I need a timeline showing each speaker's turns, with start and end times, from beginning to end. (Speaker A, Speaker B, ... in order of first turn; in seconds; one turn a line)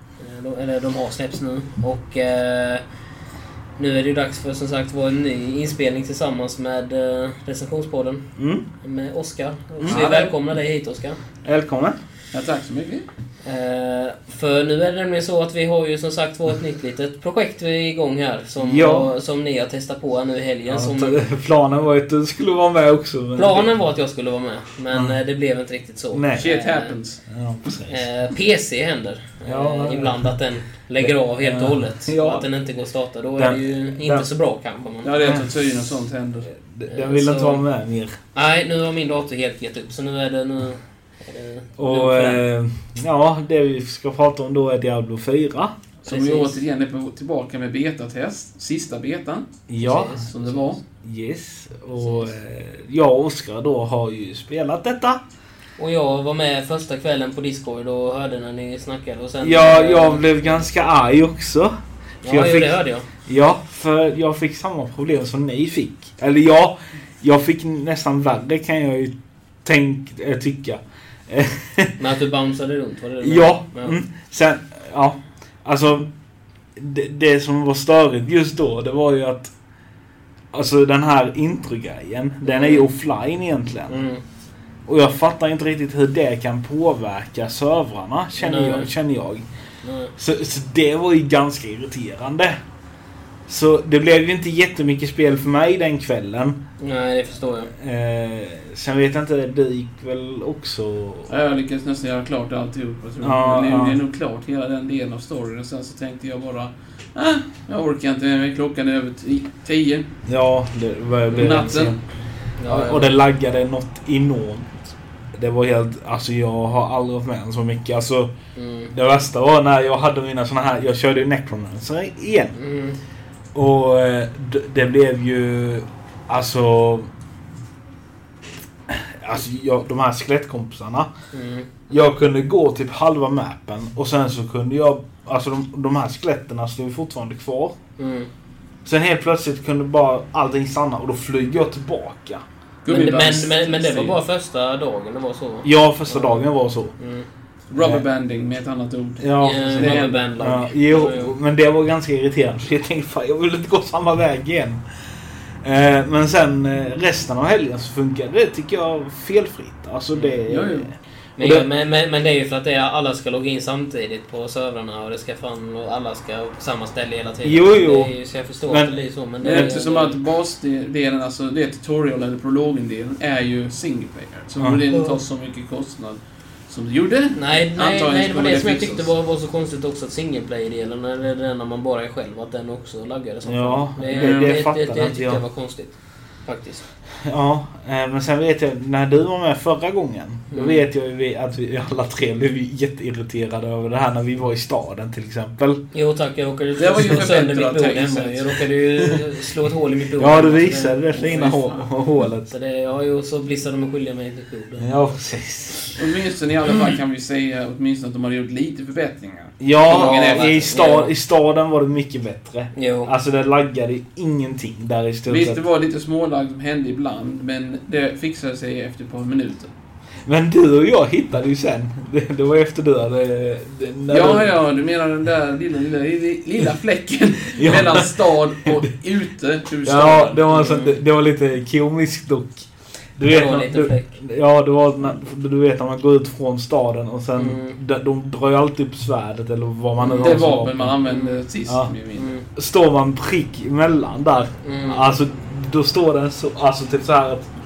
Speaker A: 0.2-2.8
Speaker A: 3.8-8.2
Speaker B: 8.4-8.7
Speaker A: 8.8-11.2
Speaker B: 9.8-10.1
Speaker C: 9.8-10.3
Speaker B: 11.4-12.0
Speaker C: 12.3-13.1
Speaker A: 13.4-21.2
Speaker B: 18.6-19.1
Speaker B: 20.7-23.7
Speaker A: 23.4-27.0
Speaker B: 24.9-25.2
Speaker B: 26.1-26.5
Speaker C: 26.4-27.2
Speaker B: 27.3-28.0
Speaker A: 27.9-35.1
Speaker B: 29.5-30.3
Speaker B: 31.0-32.5
Speaker B: 33.4-34.3
Speaker C: 35.0-36.5
Speaker B: 35.2-35.5
Speaker B: 36.5-38.1
Speaker A: 36.9-37.6
Speaker A: 38.3-42.4
Speaker B: 41.8-45.8
Speaker A: 46.0-46.6
Speaker C: 46.1-49.5
Speaker B: 49.7-50.2
Speaker A: 49.8-50.7
Speaker C: 50.3-50.8
Speaker B: 51.0-55.2
Speaker A: 52.0-52.3
Speaker A: 55.8-60.7
Speaker B: 59.4-61.7
Speaker A: 62.2-63.1
Speaker B: 62.2-72.0
Speaker A: 72.0-74.0
Speaker B: 73.2-76.1
Speaker B: 76.8-79.5
Speaker B: 80.5-84.0
Speaker A: 82.5-82.9
Speaker A: 83.9-84.2
Speaker B: 84.9-89.5
Speaker A: 88.4-88.9
Speaker A: 89.8-90.1
Speaker B: 90.2-92.5
Speaker B: 93.5-96.6
Speaker A: 96.8-97.7
Speaker B: 97.8-101.3
Speaker C: 101.3-110.1
Speaker B: 103.2-104.0
Speaker B: 110.3-112.0
Speaker A: 111.3-111.9
Speaker C: 111.4-112.0
Speaker A: 112.6-113.2
Speaker B: 112.6-114.7
Speaker B: 115.3-118.3
Speaker A: 118.5-118.9
Speaker B: 118.9-122.5
Speaker A: 122.5-123.0
Speaker B: 123.5-127.1
Speaker B: 128.9-131.1
Speaker A: 131.3-131.7
Speaker B: 131.9-137.8
Speaker A: 138.0-138.3
Speaker B: 138.8-142.4
Speaker C: 142.8-144.2
Speaker A: 142.9-147.3
Speaker B: 145.6-146.9
Speaker C: 147.7-150.3
Speaker B: 147.8-148.0
Speaker B: 149.2-154.8
Speaker A: 149.4-151.3
Speaker B: 155.6-161.7
Speaker A: 160.1-160.4
Speaker C: 160.5-160.9
Speaker A: 161.4-170.2
Speaker B: 167.4-168.1
Speaker B: 168.7-169.7
Speaker C: 169.4-179.1
Speaker A: 174.9-175.2
Speaker A: 177.3-185.9
Speaker B: 183.4-185.4
Speaker C: 184.0-184.6
Speaker A: 186.4-186.8
Speaker B: 187.2-195.8
Speaker A: 190.5-190.8
Speaker A: 195.9-201.2
Speaker C: 196.8-198.6
Speaker B: 200.2-202.5
Speaker C: 201.1-201.9
Speaker A: 202.4-205.0
Speaker B: 204.8-206.0
Speaker C: 205.9-210.6
Speaker B: 209.6-215.6
Speaker A: 209.9-211.1
Speaker A: 212.8-213.1
Speaker C: 215.3-219.7
Speaker B: 220.2-224.5
Speaker C: 224.1-231.0
Speaker B: 227.6-228.7
Speaker B: 229.8-241.0
Speaker A: 233.2-234.1
Speaker A: 237.4-237.8
Speaker A: 240.0-240.5
Speaker C: 240.2-242.4
Speaker A: 241.1-241.4
Speaker B: 241.7-241.9
Speaker A: 242.2-242.4
Speaker B: 242.5-247.5
Speaker A: 244.6-245.1